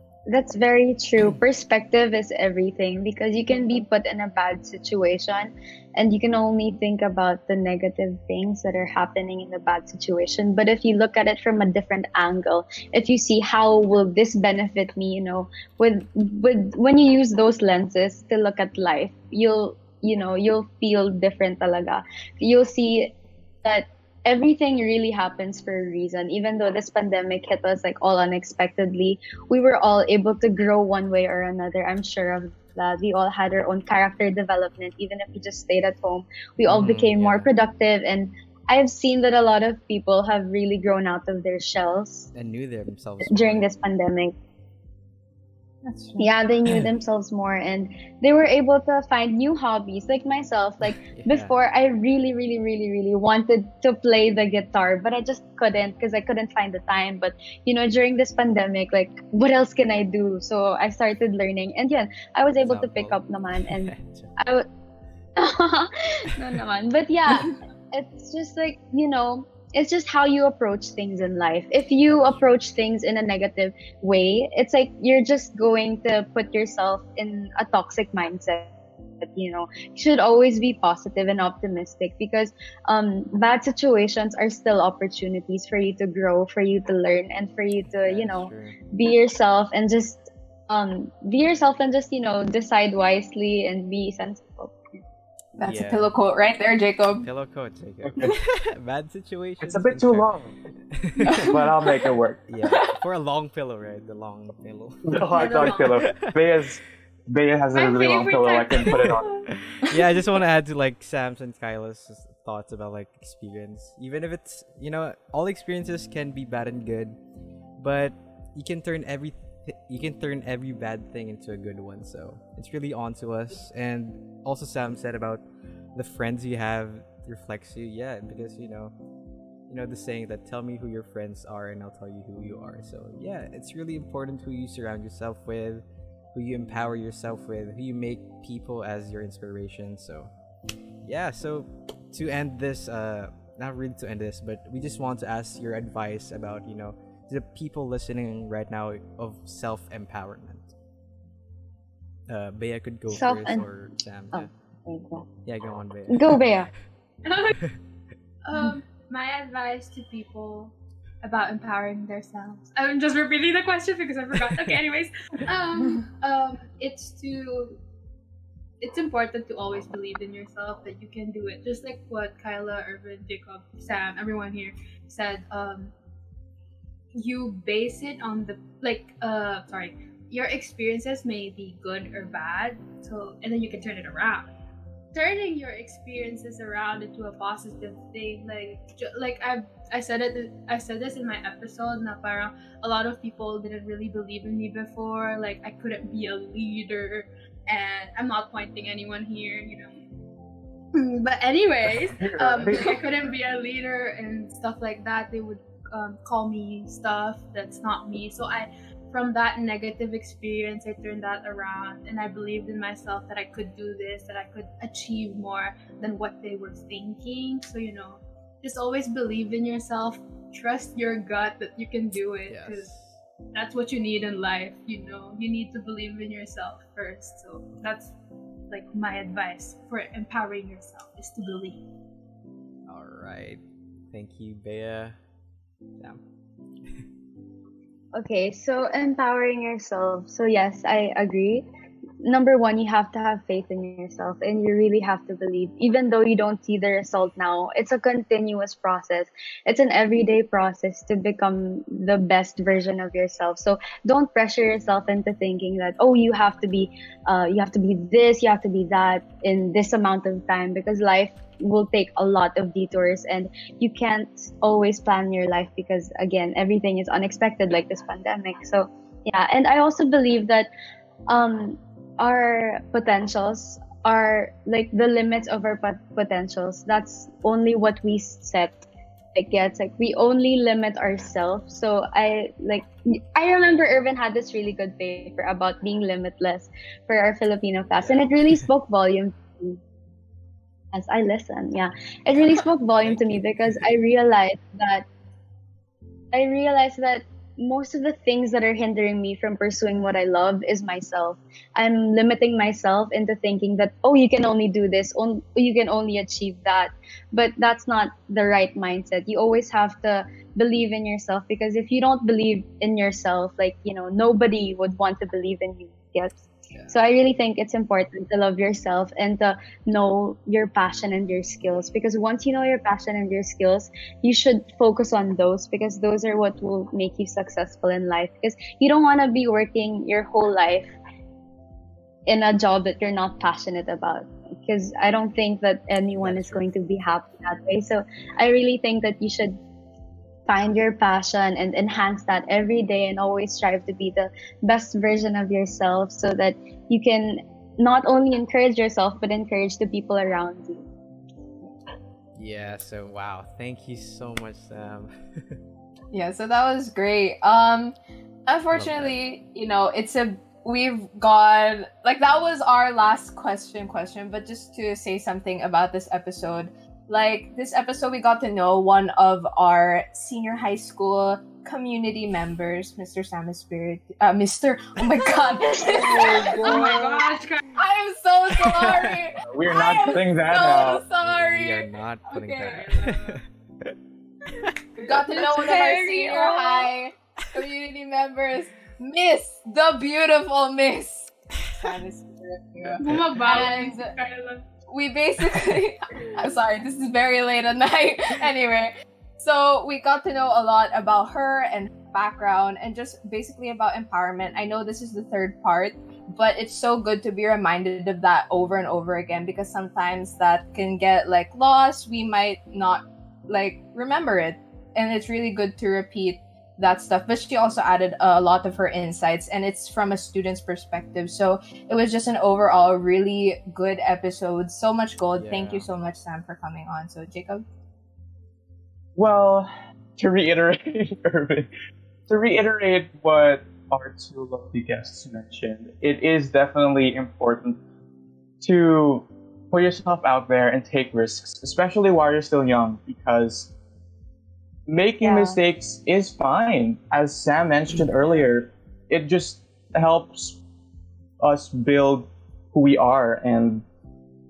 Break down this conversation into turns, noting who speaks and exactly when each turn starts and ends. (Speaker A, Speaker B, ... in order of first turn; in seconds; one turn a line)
Speaker A: 0.3-42.3
Speaker B: 36.7-37.5
Speaker B: 42.3-43.7
Speaker A: 43.2-44.4
Speaker B: 45.9-46.9
Speaker A: 46.2-64.7
Speaker B: 51.0-51.5
Speaker B: 62.6-64.3
Speaker A: 65.4-95.0
Speaker B: 72.1-72.5
Speaker B: 88.0-88.8
Speaker C: 95.6-97.3
Speaker B: 95.6-96.1
Speaker B: 97.2-100.3
Speaker D: 98.0-98.4
Speaker D: 99.6-100.6
Speaker B: 100.9-101.6
Speaker C: 101.2-101.9
Speaker D: 101.3-102.4
Speaker B: 102.5-106.6
Speaker D: 105.0-109.4
Speaker E: 105.3-106.1
Speaker E: 107.8-109.5
Speaker B: 108.9-117.2
Speaker B: 117.8-125.4
Speaker B: 126.0-128.9
Speaker B: 129.7-140.3
Speaker B: 141.0-150.7
Speaker B: 152.3-154.5
Speaker A: 153.1-153.7
Speaker A: 154.3-155.3
Speaker B: 155.4-156.5
Speaker A: 156.1-156.7
Speaker E: 157.2-157.7
Speaker E: 158.4-167.8
Speaker B: 164.5-164.8
Speaker E: 168.8-175.9
Speaker E: 177.1-184.5
Speaker E: 185.1-200.0
Speaker E: 200.9-222.9
Speaker D: 202.2-203.0
Speaker B: 222.5-223.2
Speaker E: 223.5-228.2
Speaker E: 228.7-231.8
Speaker B: 232.9-235.2
Speaker A: 238.1-241.7
Speaker A: 242.2-270.7
Speaker A: 271.3-289.8
Speaker A: 290.9-295.1
Speaker B: 293.0-293.9
Speaker A: 296.3-330.9
Speaker A: 332.3-339.6
Speaker B: 336.2-336.7
Speaker A: 340.5-350.9
Speaker B: 352.4-355.6
Speaker C: 356.1-357.9
Speaker C: 358.5-377.0
Speaker B: 358.7-359.2
Speaker A: 375.6-377.3
Speaker E: 376.2-377.8
Speaker C: 377.7-383.0
Speaker B: 378.6-379.2
Speaker D: 379.4-381.1
Speaker B: 381.2-384.8
Speaker E: 382.9-383.4
Speaker C: 385.0-394.1
Speaker A: 385.1-386.9
Speaker B: 391.6-391.9
Speaker B: 392.9-393.3
Speaker E: 393.0-394.6
Speaker C: 394.9-427.6
Speaker B: 425.4-425.9
Speaker D: 429.2-431.7
Speaker D: 432.3-437.8
Speaker D: 438.6-443.7
Speaker D: 444.9-450.6
Speaker A: 445.2-445.6
Speaker D: 451.4-453.9